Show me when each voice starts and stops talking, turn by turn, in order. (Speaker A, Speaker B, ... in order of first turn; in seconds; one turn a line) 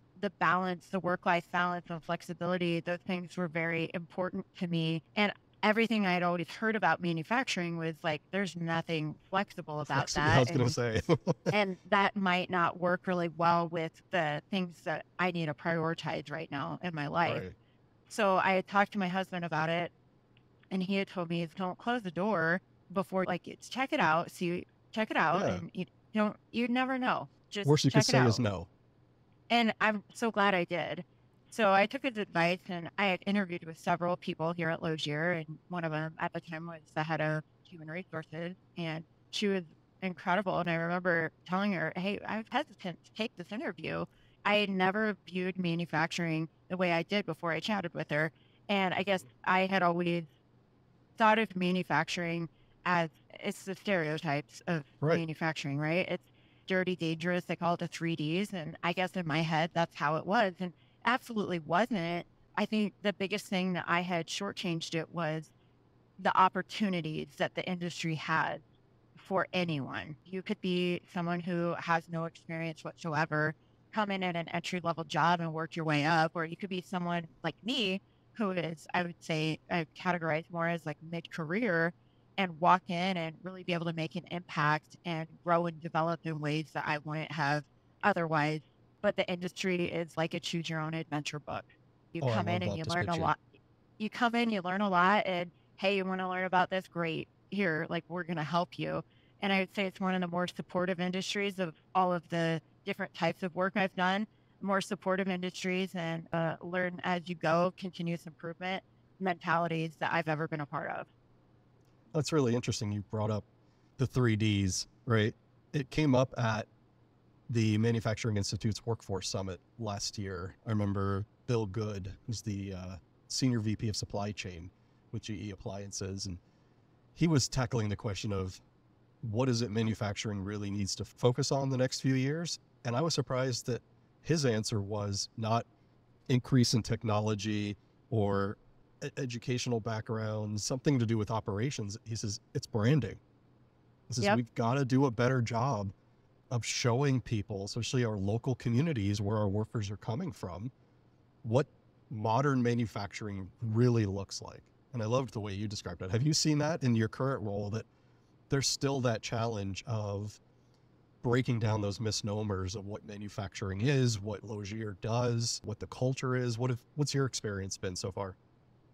Speaker A: 0.1-10.7
Speaker B: 9.8-11.5
Speaker A: 11.5-17.4
Speaker B: 17.2-17.5
Speaker A: 18.1-19.9
Speaker A: 20.7-28.4
Speaker B: 25.3-25.6
Speaker B: 27.6-28.7
Speaker A: 29.5-50.3
Speaker A: 51.2-65.5
Speaker A: 66.2-68.6
Speaker A: 69.2-93.4
Speaker B: 92.2-93.3
Speaker A: 94.0-111.1
Speaker B: 112.1-113.4
Speaker B: 114.0-116.7
Speaker B: 117.5-126.4
Speaker B: 127.1-128.6
Speaker B: 129.2-135.7
Speaker B: 136.3-143.2
Speaker B: 144.1-145.9
Speaker B: 146.5-150.7
Speaker B: 151.4-157.8
Speaker B: 158.5-160.4
Speaker B: 161.2-168.4